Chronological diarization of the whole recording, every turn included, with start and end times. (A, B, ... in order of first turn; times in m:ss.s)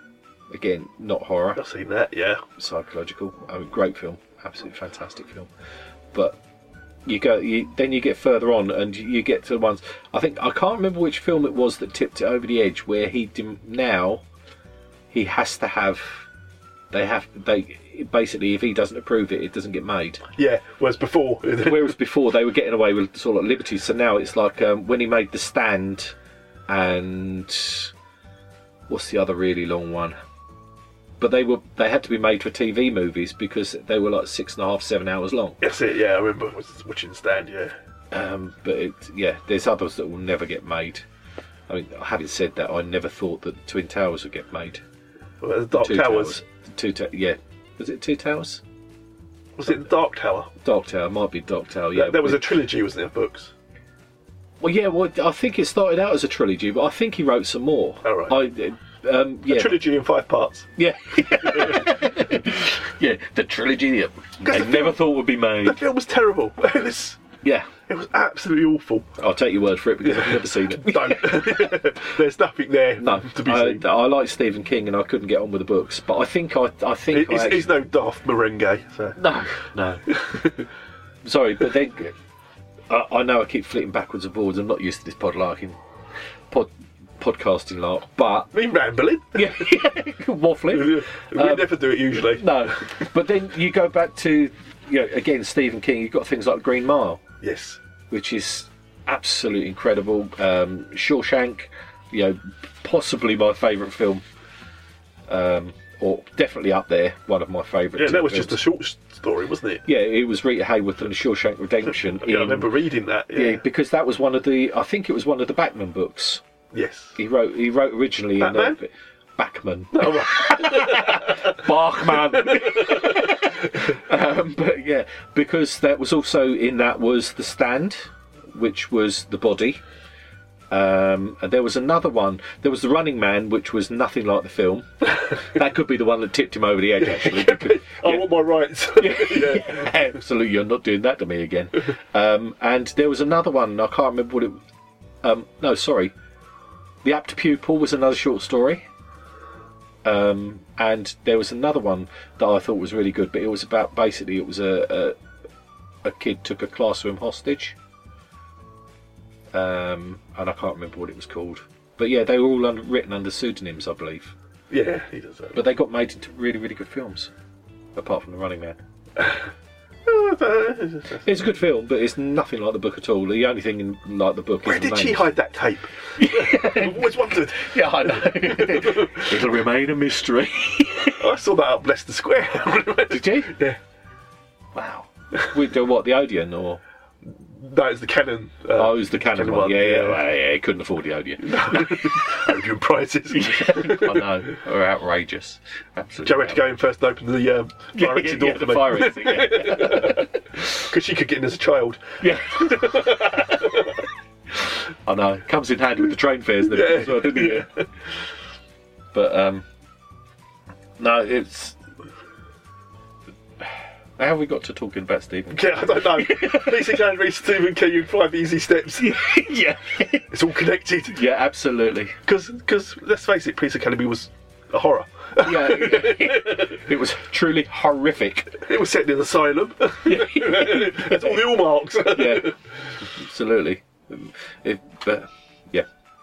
0:00.5-0:01.6 A
0:01.6-0:02.4 B
0:02.6-0:05.5 A
0:07.0-0:14.2 A
0:15.1-0:16.3 A
0:16.9-0:20.2 A
0:20.4-0:21.9 B
0:21.6-0:26.1 A
0:26.7-0:27.9 A
0:28.9-0:30.2 A
0:31.2-0:35.6 A
0:35.6-0:37.7 B
0:38.1-0:41.0 A
0:41.7-0:44.8 A
0:45.4-0:46.4 B
0:45.7-0:48.6 A
0:49.6-0:50.5 B
0:50.6-0:52.4 A
0:51.9-0:53.5 B
0:54.6-0:59.8 A
0:58.0-0:58.4 B
0:59.5-1:00.7 B
1:00.8-1:05.8 A
1:01.4-1:01.9 B
1:04.4-1:07.2 B
1:07.4-1:07.7 A
1:07.9-1:09.1 B
1:09.2-1:11.7 A
1:10.0-1:13.9 B
1:13.0-1:17.7 A
1:17.1-1:19.2 B
1:19.2-1:20.0 A
1:20.1-1:20.6 B
1:21.2-1:22.1 A
1:22.9-1:25.8 A
1:26.5-1:28.5 A
1:28.5-1:29.7 B
1:29.3-1:37.2 A
1:30.7-1:32.7 B
1:37.4-1:37.8 B
1:38.1-1:44.2 A
1:45.3-1:48.6 A
1:48.0-1:49.8 B
1:49.8-1:52.6 A
1:52.2-1:53.6 B
1:53.3-1:56.4 A
1:56.7-1:57.2 B
1:57.2-2:09.8 A
1:58.4-1:58.8 B
1:59.9-2:01.6 B
2:02.3-2:03.4 B
2:10.7-2:18.3 A
2:17.0-2:20.0 B
2:19.0-2:24.6 A
2:25.2-2:26.1 A
2:27.0-2:28.8 A
2:30.0-2:35.2 A
2:36.0-2:37.7 A
2:39.5-2:44.3 A
2:44.7-2:45.6 B
2:45.5-2:47.3 A
2:47.9-2:48.8 A
2:50.0-2:51.5 B
2:51.2-2:55.3 A
2:54.6-2:59.3 B
2:56.2-3:01.2 A
3:01.2-3:03.8 B
3:03.1-3:03.6 A
3:04.7-3:06.8 A
3:07.2-3:10.2 B
3:08.7-3:12.4 A
3:11.4-3:14.4 B
3:13.3-3:16.6 A
3:16.2-3:23.9 B
3:17.9-3:20.4 A
3:22.2-3:23.0 A
3:25.0-3:27.7 A
3:26.6-3:27.9 B
3:29.1-3:29.6 A
3:31.0-3:31.8 A
3:34.2-3:36.8 A
3:35.5-3:39.2 B
3:39.0-3:40.3 A
3:40.3-3:41.2 B
3:41.1-3:42.2 A
3:42.2-3:46.7 B
3:45.4-3:48.6 A
3:48.6-3:52.5 B
3:50.0-3:51.4 A
3:52.1-3:52.5 A
3:53.2-3:55.8 A